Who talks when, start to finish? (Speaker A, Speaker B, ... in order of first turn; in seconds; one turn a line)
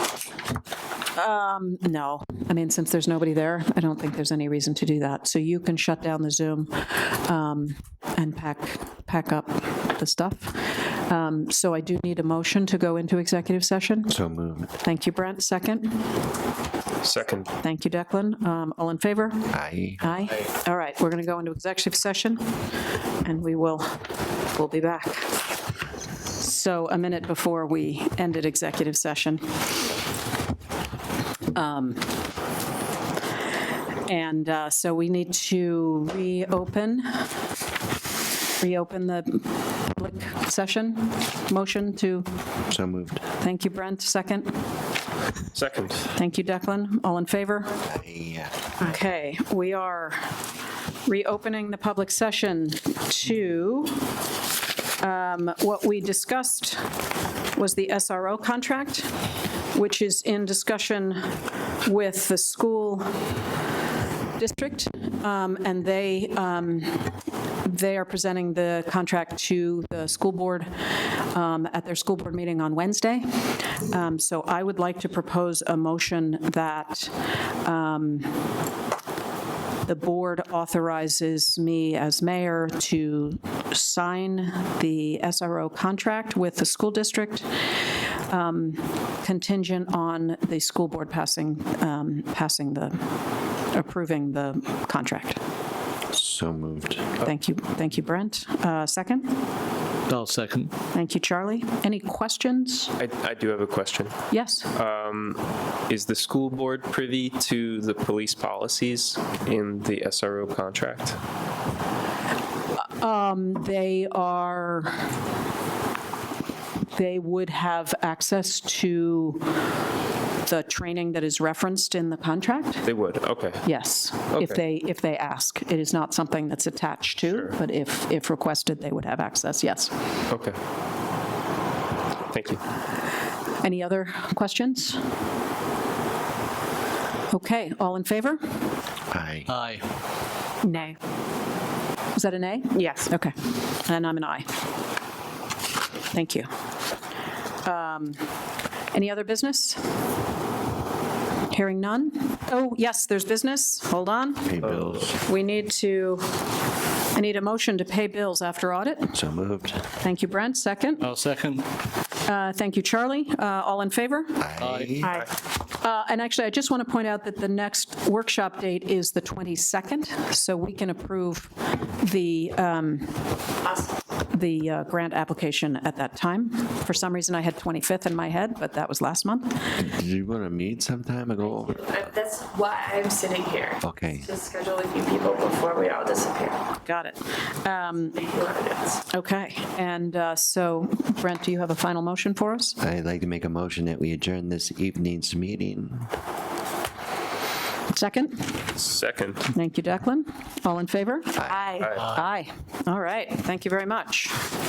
Speaker A: 1.1-14.1
Speaker B: 14.1-14.7
Speaker A: 14.8-16.0
Speaker C: 17.0-17.5
Speaker A: 17.6-22.6
Speaker B: 19.5-20.3
Speaker A: 23.2-24.0
Speaker A: 24.5-25.4
Speaker A: 26.3-29.5
Speaker A: 31.5-32.2
Speaker A: 34.0-37.2
Speaker A: 38.6-42.3
Speaker B: 42.7-43.2
Speaker A: 43.4-44.5
Speaker C: 45.5-46.1
Speaker A: 46.1-47.8
Speaker B: 47.8-48.7
Speaker A: 48.8-50.3
Speaker A: 51.0-54.0
Speaker A: 55.0-56.8
Speaker A: 57.5-59.1
Speaker A: 59.7-63.1
Speaker A: 64.4-78.3
Speaker A: 79.8-93.0
Speaker A: 93.7-95.4
Speaker B: 96.1-97.1
Speaker A: 97.2-99.3
Speaker D: 100.1-100.7
Speaker A: 100.9-102.9
Speaker C: 103.0-111.2
Speaker A: 104.3-104.7
Speaker A: 112.8-115.0
Speaker A: 116.9-119.5
Speaker A: 120.4-122.8
Speaker C: 122.8-123.6
Speaker A: 123.6-129.9
Speaker C: 124.3-124.6
Speaker C: 130.3-130.6
Speaker C: 132.3-132.6
Speaker A: 133.6-135.0
Speaker A: 137.3-138.4
Speaker B: 139.1-139.5
Speaker D: 139.5-139.8
Speaker A: 142.1-144.5
Speaker E: 142.7-143.1
Speaker A: 146.1-146.5
Speaker A: 147.6-148.2
Speaker A: 148.9-149.8
Speaker A: 151.5-154.5
Speaker B: 154.4-155.2
Speaker C: 154.6-155.0
Speaker A: 155.2-156.3
Speaker A: 157.1-159.2
Speaker B: 159.1-159.9
Speaker A: 160.0-161.1
Speaker D: 161.0-161.6
Speaker A: 162.2-164.4
Speaker B: 164.4-165.1
Speaker D: 164.6-165.0
Speaker E: 165.0-165.3
Speaker A: 165.7-173.2
Speaker E: 173.7-173.9
Speaker A: 174.2-179.8
Speaker B: 179.8-181.8
Speaker E: 181.4-186.6
Speaker B: 183.8-184.3
Speaker A: 186.7-188.2
Speaker E: 188.2-189.0
Speaker A: 189.1-192.8
Speaker B: 192.8-196.1
Speaker A: 197.9-198.6
Speaker C: 198.8-199.5
Speaker A: 199.5-201.4
Speaker B: 201.3-201.7
Speaker E: 201.5-202.0
Speaker C: 201.8-202.1
Speaker A: 202.0-204.4